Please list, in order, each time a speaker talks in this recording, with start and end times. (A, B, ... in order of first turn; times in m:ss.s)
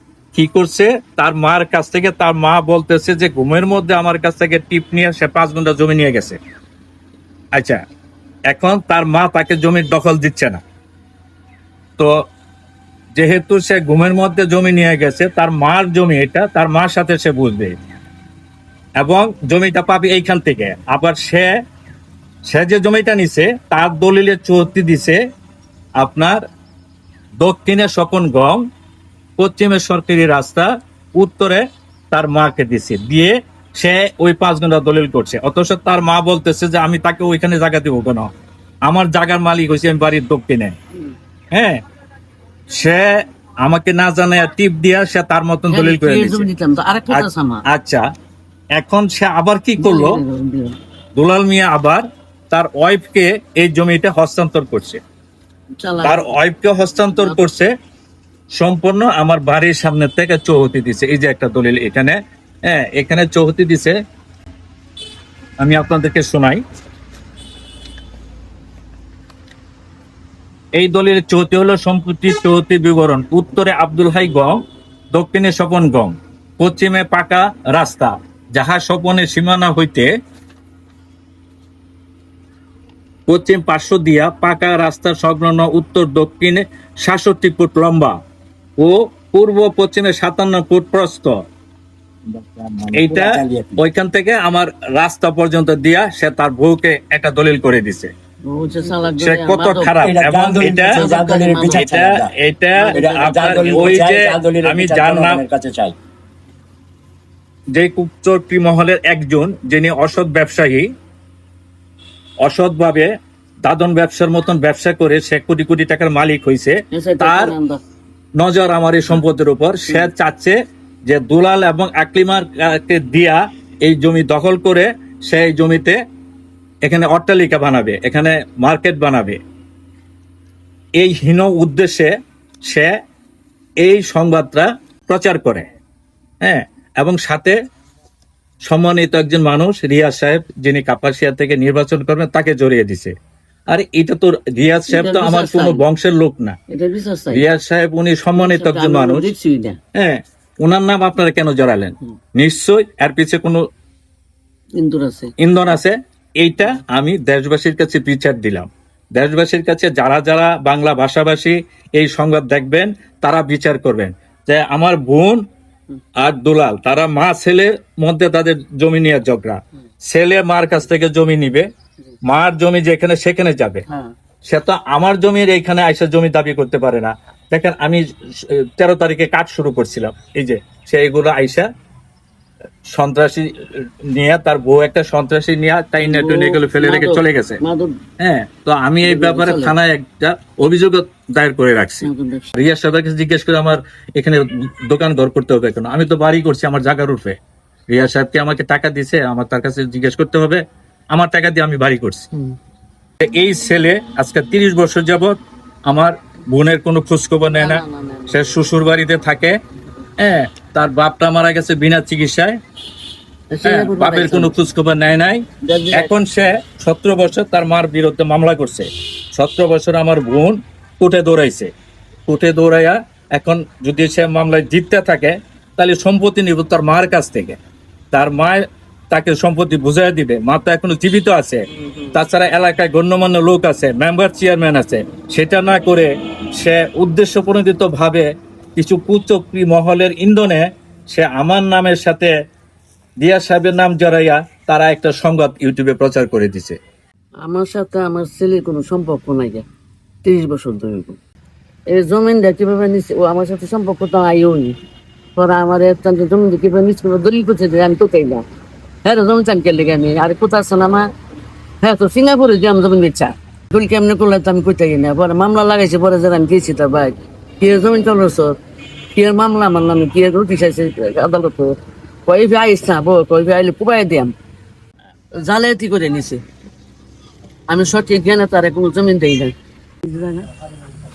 0:00.3-0:06.4 A
0:07.5-0:07.8 A
0:08.5-0:10.6 A
0:13.2-0:17.8 A
0:19.0-0:21.5 A
0:22.5-0:25.2 A
0:26.0-0:26.4 A
0:27.4-0:28.6 A
0:29.4-0:38.3 A
0:38.9-0:40.8 A
0:41.5-0:41.8 A
0:42.7-0:46.5 A
0:45.7-0:47.6 B
0:47.1-0:48.1 A
0:48.8-0:50.2 A
0:49.8-0:50.8 B
0:51.2-0:55.0 A
0:55.8-0:56.3 B
0:56.0-0:57.7 A
0:57.1-0:57.4 B
0:58.6-1:02.2 A
1:02.7-1:04.0 A
1:05.6-1:06.6 A
1:10.8-1:14.6 A
1:15.1-1:20.1 A
1:23.3-1:28.2 A
1:28.8-1:31.4 A
1:32.4-1:33.8 C
1:32.9-1:38.1 A
1:38.5-1:40.0 B
1:39.2-1:41.1 A
1:40.0-1:42.3 C
1:40.6-1:41.8 B
1:41.6-1:45.4 A
1:42.8-1:44.0 B
1:42.9-1:45.9 C
1:47.7-1:50.9 A
1:52.4-1:53.1 A
1:53.6-1:57.5 A
1:56.9-1:57.8 B
1:58.4-2:06.0 A
2:06.8-2:09.4 A
2:11.0-2:12.1 A
2:13.8-2:15.6 A
2:16.4-2:17.6 A
2:18.7-2:23.1 A
2:23.7-2:26.6 A
2:24.9-2:25.8 B
2:26.7-2:27.4 B
2:27.3-2:29.3 A
2:28.4-2:29.8 B
2:29.9-2:33.6 A
2:34.8-2:35.3 B
2:35.4-2:45.4 A
2:46.2-2:51.7 A
2:52.2-2:53.8 A
2:54.5-3:01.7 A
3:02.9-3:03.5 A
3:04.1-3:07.6 A
3:06.0-3:08.0 B
3:08.2-3:17.4 A
3:09.0-3:09.7 B
3:12.0-3:12.5 B
3:17.9-3:20.6 A
3:21.1-3:22.3 A
3:23.2-3:29.5 A
3:27.5-3:28.5 B
3:30.2-3:32.6 A
3:33.5-3:34.6 B
3:33.6-3:41.7 A
3:35.6-3:36.1 B
3:42.2-3:47.6 A
3:48.1-4:02.3 A
3:51.7-3:52.1 B
4:03.2-4:06.8 A
4:07.4-4:09.6 B
4:10.2-4:11.2 B
4:11.9-4:14.8 B
4:15.4-4:18.4 B
4:19.0-4:21.1 B
4:21.8-4:28.6 B
4:29.1-4:34.3 B
4:35.4-4:36.4 B
4:37.7-4:39.5 B
4:40.0-4:40.5 B